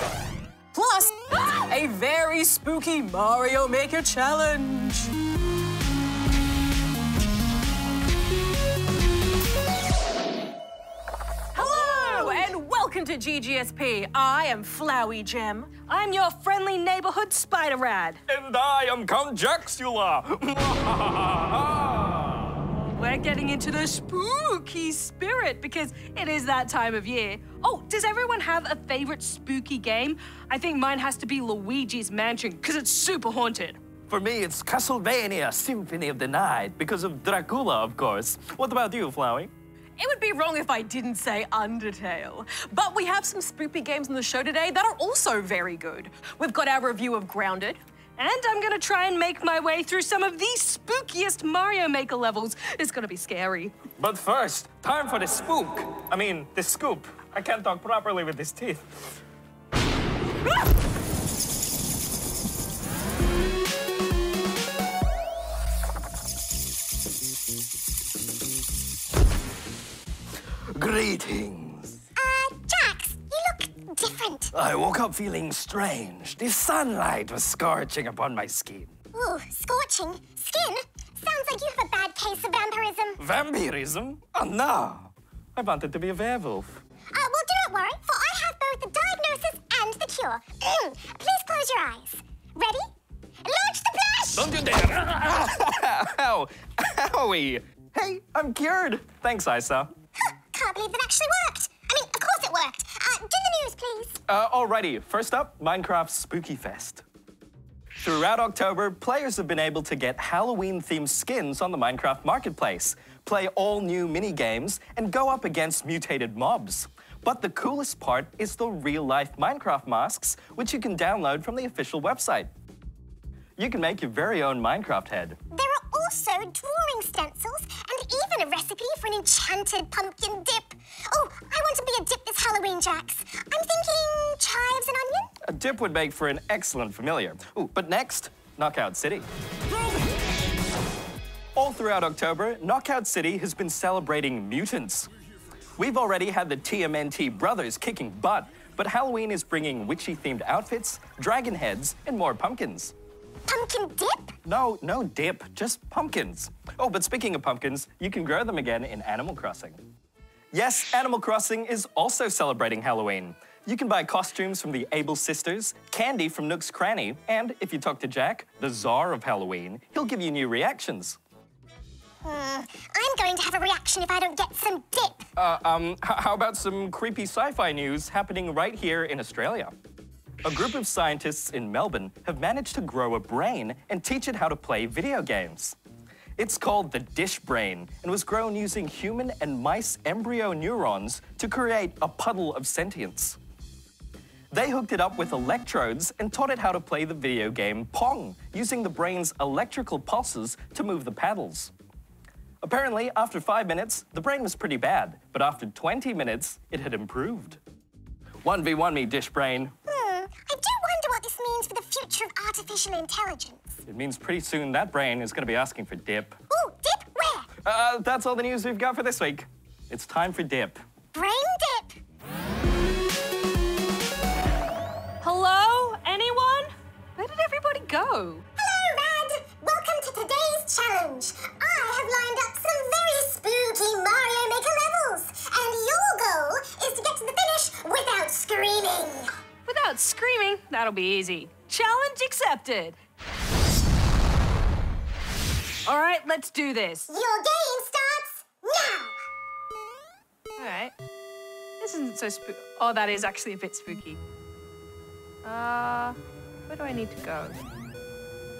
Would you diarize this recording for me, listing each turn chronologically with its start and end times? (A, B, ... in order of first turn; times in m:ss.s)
0:00.7-0:05.1 A
0:11.6-0:15.7 A
0:11.6-0:12.4 B
0:15.9-0:18.2 C
0:18.3-0:22.6 B
0:22.7-0:33.8 C
0:34.1-0:39.5 B
0:40.0-0:47.8 A
0:48.2-0:53.8 C
0:54.0-0:59.2 B
1:10.7-1:12.0 B
1:12.2-1:14.5 D
1:14.5-1:18.9 B
1:19.1-1:23.2 D
1:23.2-1:26.8 B
1:27.1-1:32.9 D
1:33.4-1:34.5 D
1:34.4-1:39.9 B
1:40.5-1:44.2 D
1:44.3-1:47.0 B
1:48.0-2:02.5 B
2:03.6-2:05.4 B
2:05.5-2:15.3 D
2:15.4-2:19.3 B
2:21.6-2:25.1 B
2:25.8-2:32.9 B
2:33.5-2:34.4 D
2:34.4-2:39.8 B
2:40.5-2:51.2 B
2:52.2-2:55.3 D
2:55.4-2:59.7 B
3:00.4-3:05.8 B
3:06.4-3:13.4 B
3:14.5-3:21.7 B
3:22.6-3:27.6 B
3:28.4-3:29.7 B
3:29.9-3:33.8 D
3:33.9-3:36.4 B
3:36.5-3:37.5 D
3:37.6-3:40.8 B
3:41.2-3:42.0 D
3:45.2-3:48.4 C
3:48.6-3:59.3 D
3:59.6-4:03.0 C
4:05.9-4:07.1 C
4:07.1-4:09.2 D
4:10.6-4:10.9 C
4:11.8-4:14.2 C
4:15.4-4:17.6 C